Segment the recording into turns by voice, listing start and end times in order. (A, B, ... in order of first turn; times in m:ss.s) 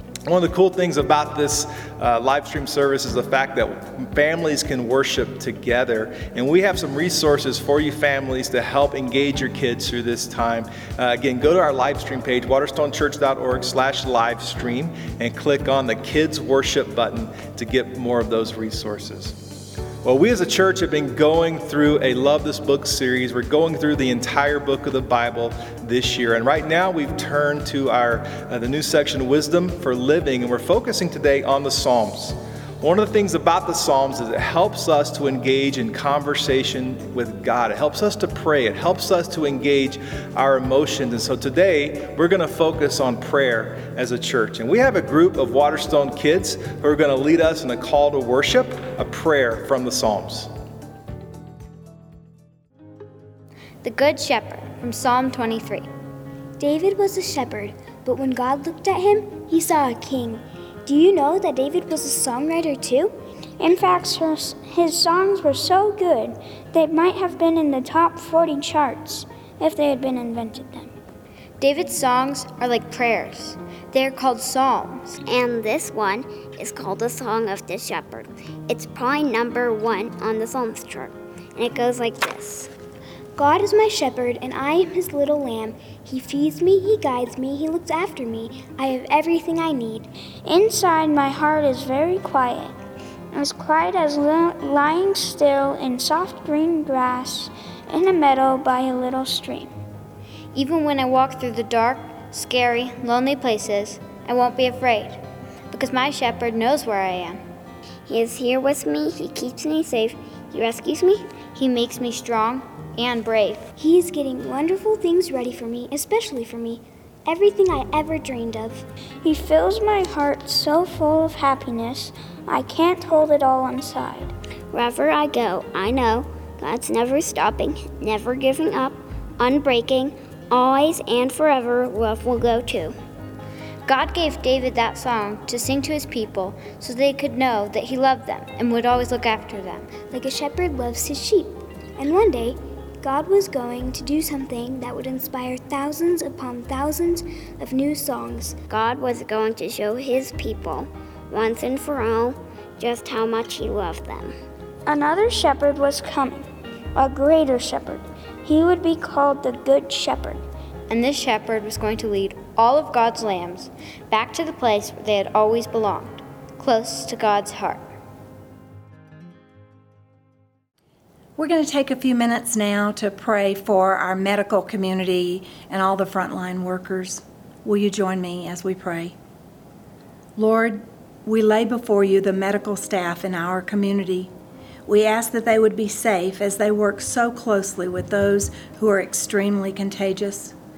0:00.2-0:19.4 A
0:20.0-0:50.5 A
0:53.8-0:55.9 B
0:56.6-1:03.1 C
1:03.6-1:10.9 D
1:11.6-1:15.2 B
1:15.2-1:22.7 E
1:23.4-1:30.1 C
1:30.4-1:32.8 D
1:33.3-1:39.7 D
1:40.5-1:47.4 B
1:48.1-1:51.3 E
1:51.5-1:53.7 B
1:53.8-1:58.8 C
1:59.2-2:04.3 D
2:04.7-2:13.0 E
2:13.8-2:20.0 B
2:20.1-2:28.6 C
2:28.7-2:34.3 E
2:34.8-2:40.4 D
2:40.9-2:47.8 B
2:51.4-2:59.1 F
3:00.4-3:04.3 F
3:04.8-3:10.5 F